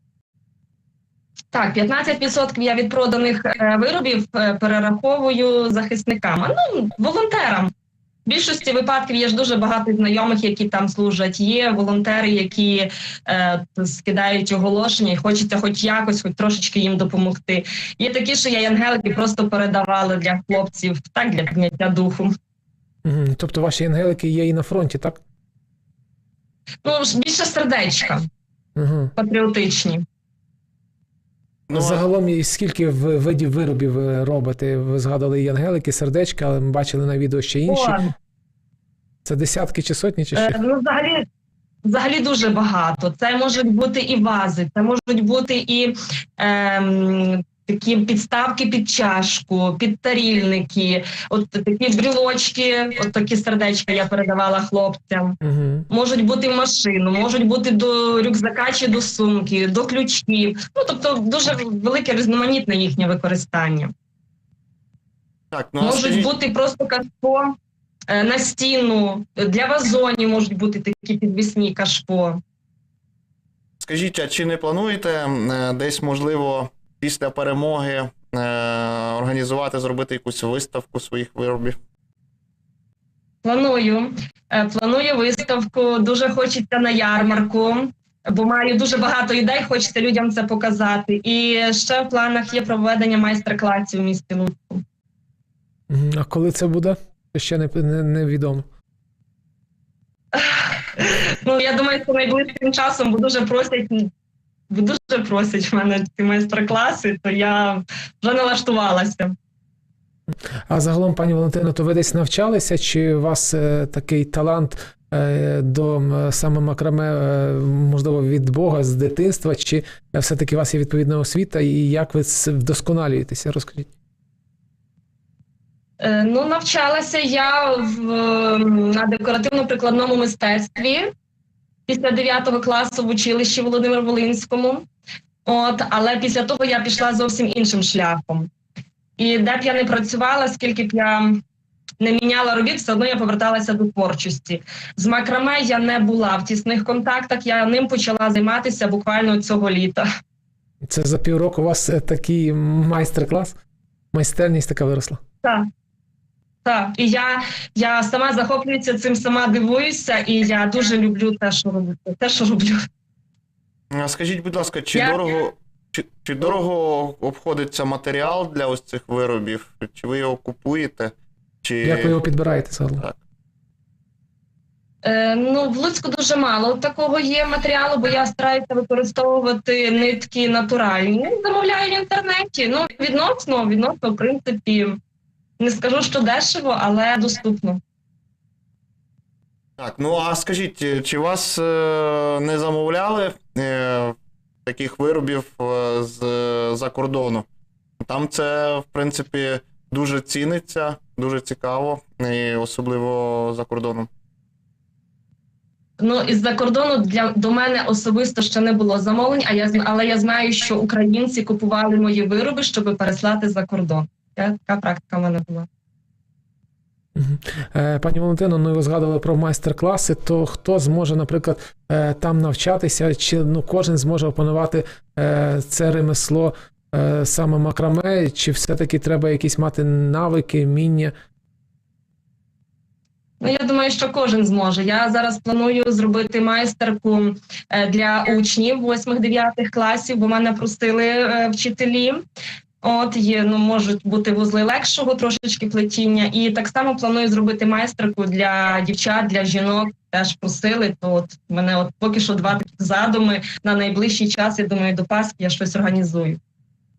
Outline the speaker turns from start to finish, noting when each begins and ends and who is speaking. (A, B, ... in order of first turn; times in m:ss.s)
0:01.5-0:07.7 A
0:08.3-0:22.3 A
0:23.0-0:25.2 B
0:26.8-0:28.3 A
0:28.8-0:29.1 B
0:29.2-0:30.0 A
0:31.7-0:32.0 C
0:31.7-0:38.0 B
0:37.7-0:38.1 A
0:39.2-0:40.6 B
0:40.3-0:41.2 A
0:41.8-0:55.4 A
0:55.4-0:55.9 B
0:55.9-1:03.9 A
1:05.5-1:06.4 C
1:05.8-1:07.5 A
1:08.1-1:12.4 A
1:13.8-1:21.8 C
1:23.4-1:34.8 A
1:35.9-1:38.6 B
1:40.3-1:44.1 A
1:44.7-1:49.4 A
1:50.7-2:03.9 B
2:06.0-2:11.1 A
2:11.9-2:14.8 A
2:15.4-2:18.5 A
2:19.2-2:21.4 A
2:22.0-2:30.1 A
2:30.9-2:33.5 B
2:34.1-2:35.2 B
2:36.6-2:42.8 A
2:43.9-2:52.2 C
2:45.0-2:45.2 A
2:51.8-2:53.0 B
2:55.0-3:05.0 A
3:05.6-3:07.8 A
3:09.8-3:17.5 C
3:18.0-3:24.1 C
3:26.0-3:35.7 A
3:37.2-3:51.1 B
3:53.4-4:02.2 A
4:02.8-4:16.4 A